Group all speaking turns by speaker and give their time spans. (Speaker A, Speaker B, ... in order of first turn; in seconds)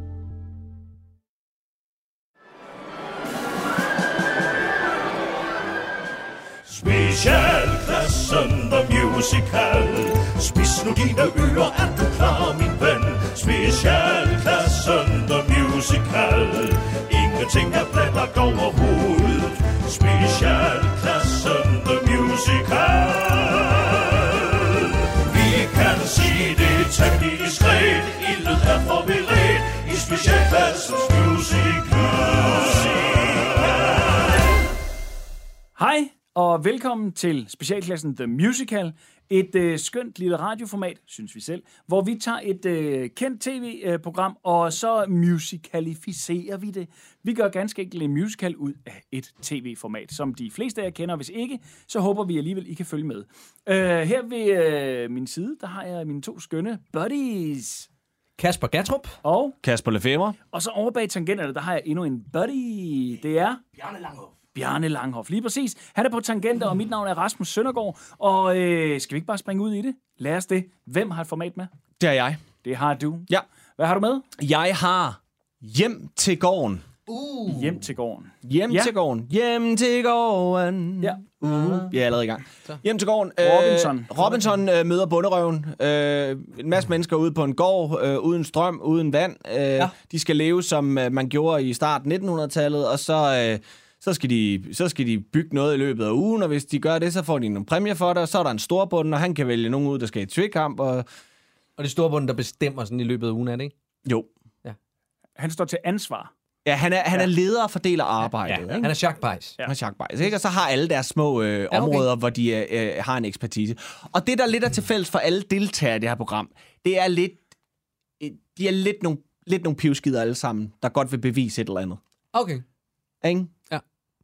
Speaker A: 6.7-34.1
Speaker B: 35.8-57.9, 59.2-59.5, 60.5-63.6, 64.5-71.7, 72.6-74.2, 77.5-78.9, 83.4-84.5, 105.4-106.3
Speaker C: 58.4-59.1, 77.1-77.7, 101.8-103.7, 108.7-109.5, 111.7-112.1, 122.3-122.6
Speaker D: 59.6-60.4, 72.0-72.4, 74.4-76.9, 78.4-101.0, 106.6-108.9, 109.6-117.4, 118.2-122.0, 123.2-123.5